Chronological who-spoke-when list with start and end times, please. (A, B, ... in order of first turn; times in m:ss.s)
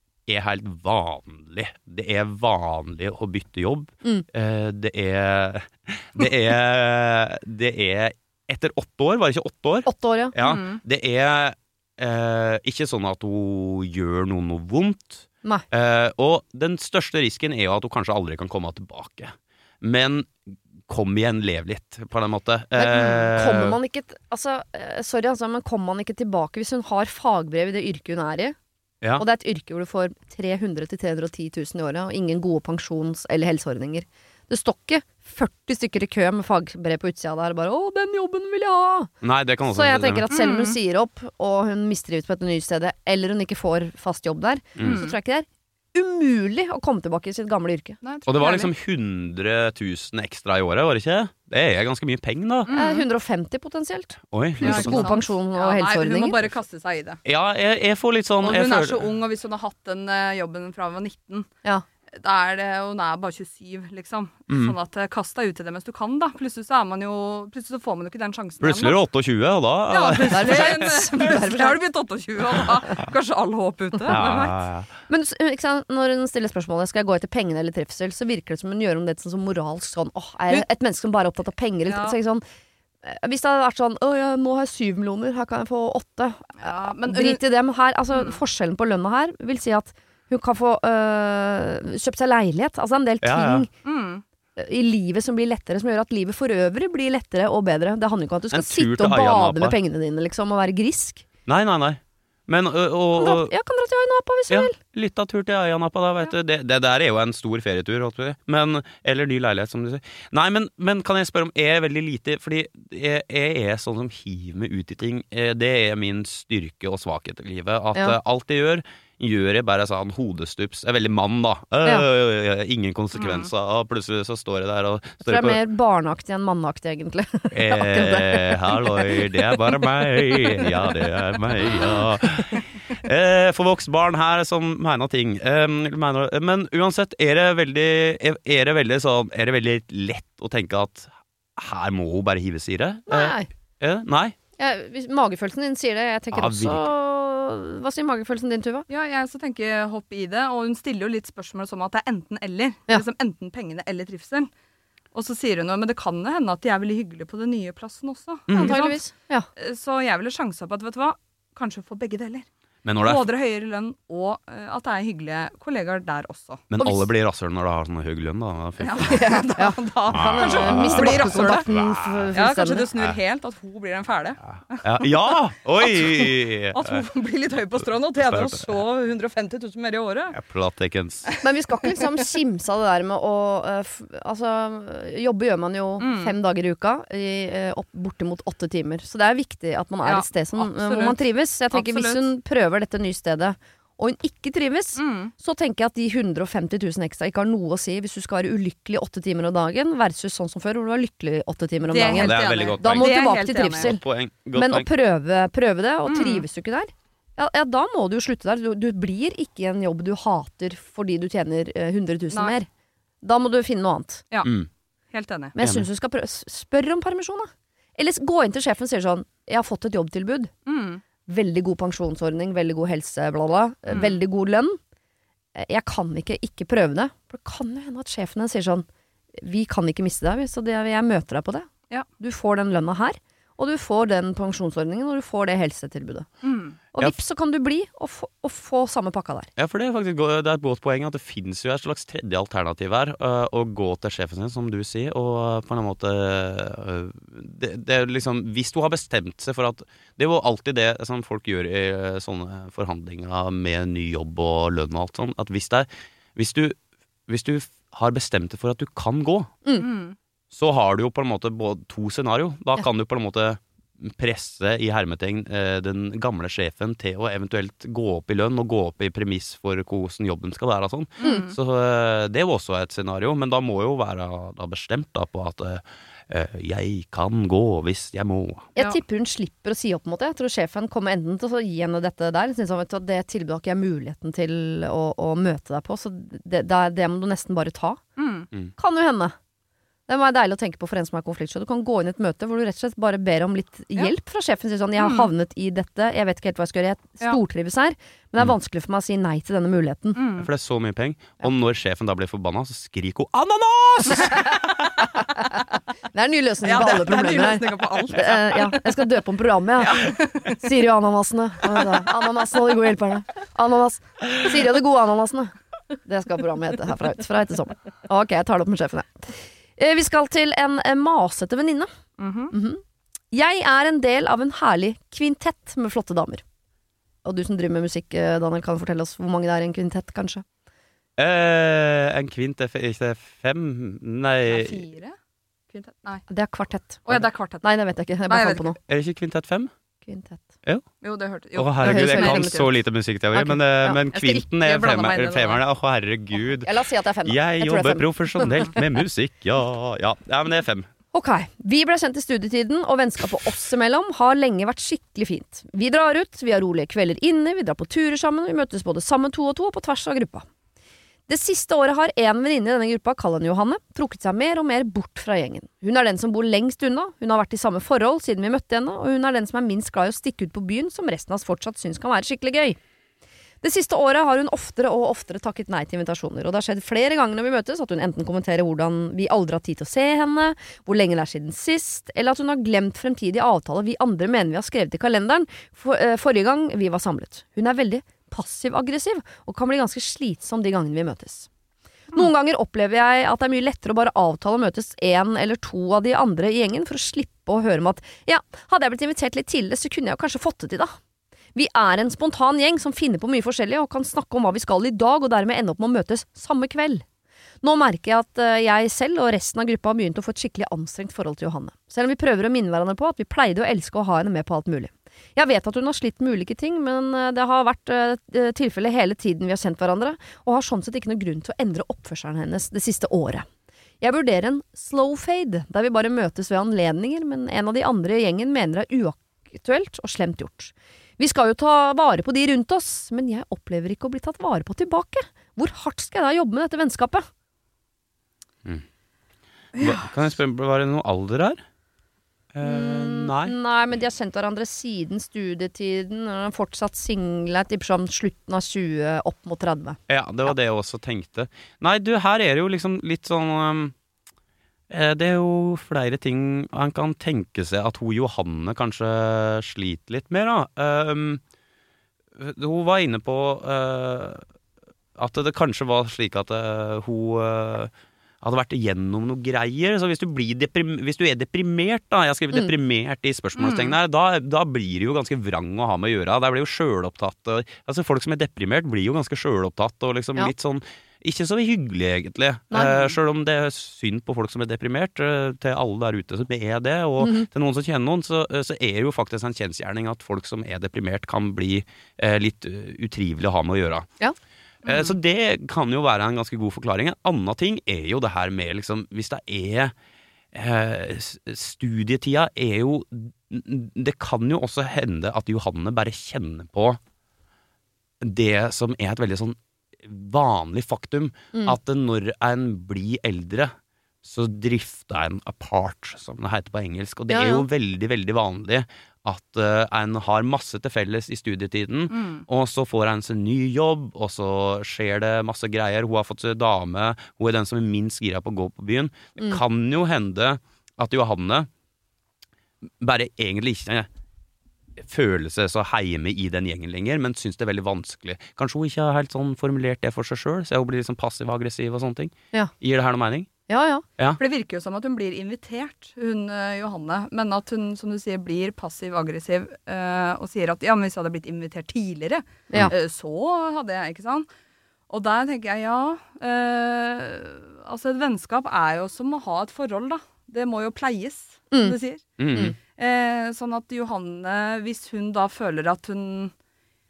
0:00.3-0:23.8 A
0:09.8-0:10.3 B
0:10.4-0:10.8 C
0:22.7-0:28.6 B
0:29.2-0:39.1 B
0:39.2-0:40.2 A
0:39.7-0:48.0 B
0:40.3-0:40.8 C
0:44.8-0:45.0 A
0:44.8-0:45.1 C
0:48.0-0:48.7 C
0:48.3-0:52.7 A
0:52.7-0:53.0 C
0:52.7-0:56.6 B
0:54.3-0:55.1 A
0:54.6-0:57.2 C
0:57.2-0:59.0 A
0:58.4-1:01.5 C
1:02.1-1:09.0 C
1:04.5-1:04.7 A
1:08.6-1:11.0 A
1:09.9-1:14.6 C
1:10.3-1:11.8 B
1:14.1-1:14.9 A
1:15.1-1:22.4 B
1:21.8-1:22.2 C
1:23.0-1:33.7 B
1:26.6-1:27.4 C
1:28.1-1:28.4 C
1:33.2-1:33.6 A
1:33.8-1:34.2 C
1:34.6-1:41.2 B
1:38.5-1:39.8 A
1:41.4-1:43.5 A
1:43.2-1:44.8 B
1:44.5-2:05.6 A
2:03.1-2:03.5 C
2:05.2-2:09.5 B
2:07.5-2:24.4 A
2:23.1-2:23.5 B
2:24.6-2:28.8 B
2:26.3-2:26.9 A
2:28.9-2:34.5 C
2:35.1-2:42.5 C
2:38.5-2:38.8 A
2:38.6-2:39.5 B
2:42.8-2:43.2 A
2:43.0-2:46.6 C
2:46.7-2:49.4 A
2:46.8-2:47.0 B
2:48.8-2:51.7 C
2:49.6-2:52.9 B
2:50.1-2:52.3 A
2:52.3-2:55.1 C
2:54.8-2:57.0 A
2:55.8-3:00.4 C
2:58.2-2:58.7 A
3:00.3-3:01.3 A
3:01.4-3:32.7 B
3:06.0-3:06.3 C
3:10.0-3:11.2 C
3:11.7-3:12.2 C
3:15.0-3:15.3 C
3:21.9-3:23.9 C
3:22.0-3:24.9 A
3:26.1-3:26.4 C
3:33.2-3:34.2 B
3:34.4-3:34.7 A
3:35.1-3:35.5 C
3:35.6-3:40.5 B
3:35.6-3:35.8 A
3:40.6-3:41.0 C
3:41.3-3:44.8 B
3:43.9-3:44.2 C
3:45.5-3:48.8 B
3:49.4-3:56.3 B
3:56.4-3:56.8 C
3:56.9-3:59.5 B
3:59.6-4:19.5 A
4:19.8-4:20.2 C
4:20.5-4:38.7 A
4:31.2-4:31.5 C
4:31.2-4:31.5 B
4:38.8-4:48.0 B
4:48.2-4:48.5 C
4:48.8-4:49.3 B
4:50.1-5:00.2 B
4:55.0-4:55.3 C
5:00.1-5:00.5 C
5:00.4-5:05.1 A
5:06.1-5:15.5 B
5:06.6-5:08.8 C
5:09.8-5:10.6 C
5:11.7-5:12.2 C
5:16.0-5:21.9 B
5:22.2-5:22.5 C
5:22.5-5:22.8 B
5:23.3-5:26.4 B
5:27.2-5:30.4 B
5:31.2-5:34.8 A
5:34.5-5:35.2 C
5:35.7-5:36.2 C
5:36.3-5:37.0 B
5:37.0-5:37.6 C
5:37.6-5:38.8 B
5:38.3-5:38.7 C
5:38.9-5:39.7 A
5:40.0-5:40.4 B
5:41.0-5:42.7 C
5:41.5-5:46.7 A
5:41.8-5:42.6 B
5:43.3-5:44.0 B
5:44.1-5:45.6 C
5:46.6-5:48.7 B
5:47.2-5:50.9 A
5:51.1-6:00.4 B
6:01.3-6:12.8 B
6:13.6-6:31.5 B
6:32.1-6:40.9 B
6:41.5-6:47.0 B
6:47.6-7:03.4 B
7:04.0-7:17.2 B
7:19.7-7:21.6 A
7:22.5-7:23.5 A
7:22.6-7:30.5 B
7:30.1-7:33.9 A
7:34.9-7:41.4 A
7:42.4-7:44.4 A
7:45.2-8:14.1 A
7:53.6-7:53.9 C
8:02.7-8:03.1 B
8:07.2-8:07.5 B
8:14.8-8:15.1 C
8:14.8-8:19.9 A
8:20.5-8:27.0 A
8:28.2-8:33.7 A
8:34.2-8:51.7 A
8:37.3-8:37.6 B
8:42.1-8:42.4 C
8:53.0-8:54.1 A
8:55.0-9:03.5 A
9:03.7-9:04.0 B
9:04.4-9:14.5 C
9:15.1-9:26.5 C
9:22.4-9:22.7 A